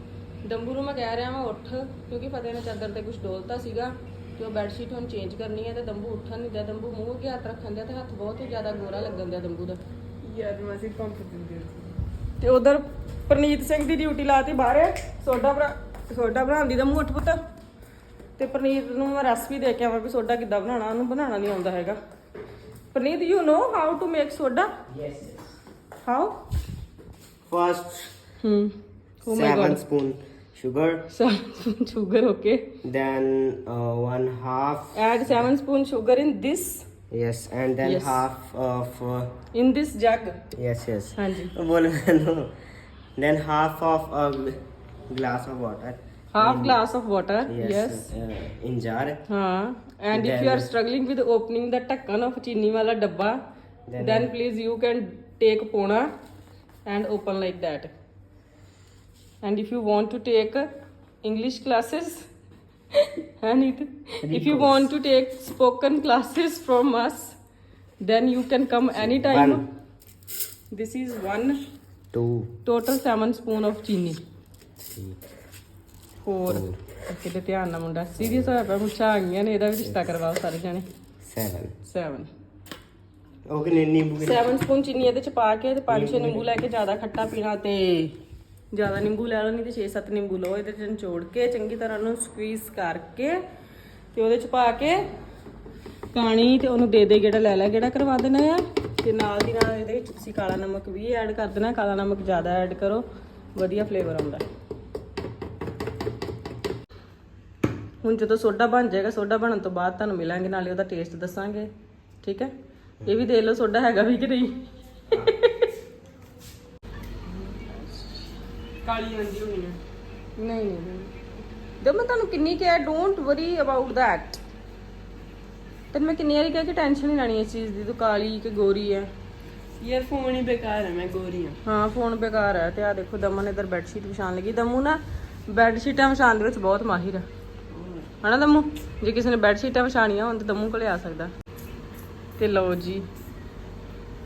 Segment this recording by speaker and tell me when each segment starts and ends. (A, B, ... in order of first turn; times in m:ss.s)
0:00.4-0:09.8 A
0:10.2-0:12.0 B
0:12.4-0:17.4 A
0:18.4-0:22.0 A
0:22.9-0:24.7 A
0:24.9-0:25.4 C
0:26.0-0:26.3 A
0:27.5-0:28.1 C
0:28.4-0:29.8 A
0:29.3-0:31.0 C
0:31.1-0:32.6 A
0:32.8-0:35.0 C
0:34.9-0:36.8 A
0:37.1-0:39.3 C
0:37.8-0:38.2 A
0:39.5-0:40.4 A
0:40.6-0:46.8 C
0:41.1-0:41.5 A
0:46.3-0:48.1 A
0:47.5-0:49.2 C
0:49.3-0:53.4 A
0:50.1-0:50.7 C
0:53.9-0:54.3 C
0:54.0-0:56.1 A
0:56.9-0:57.9 A
0:59.4-1:00.7 A
1:01.2-1:02.3 A
1:03.4-1:07.4 A
1:04.2-1:04.7 C
1:08.0-1:09.6 A
1:09.0-1:09.6 C
1:10.7-1:11.6 A
1:12.1-1:12.5 C
1:12.6-1:14.2 A
1:14.8-1:15.2 C
1:16.2-1:20.8 A
1:16.5-1:16.8 C
1:18.2-1:18.5 C
1:19.8-1:20.1 C
1:21.2-1:21.7 C
1:21.8-1:22.3 A
1:23.5-1:24.5 C
1:24.2-1:28.1 A
1:25.9-1:26.5 C
1:28.7-1:33.4 A
1:34.1-1:35.0 A
1:36.1-1:43.0 A
1:43.5-1:44.4 A
1:48.0-1:51.7 A
1:52.2-1:52.5 A
1:53.0-1:54.6 A
1:55.1-1:55.5 A
1:57.3-1:58.2 A
1:58.8-1:59.8 B
2:00.4-2:01.1 A
2:01.8-2:04.4 A
2:05.9-2:09.1 A
2:09.8-2:11.6 B
2:11.6-2:15.0 A
2:15.5-2:17.2 A
2:17.7-2:18.1 B
2:18.2-2:21.3 A
2:22.4-2:23.0 A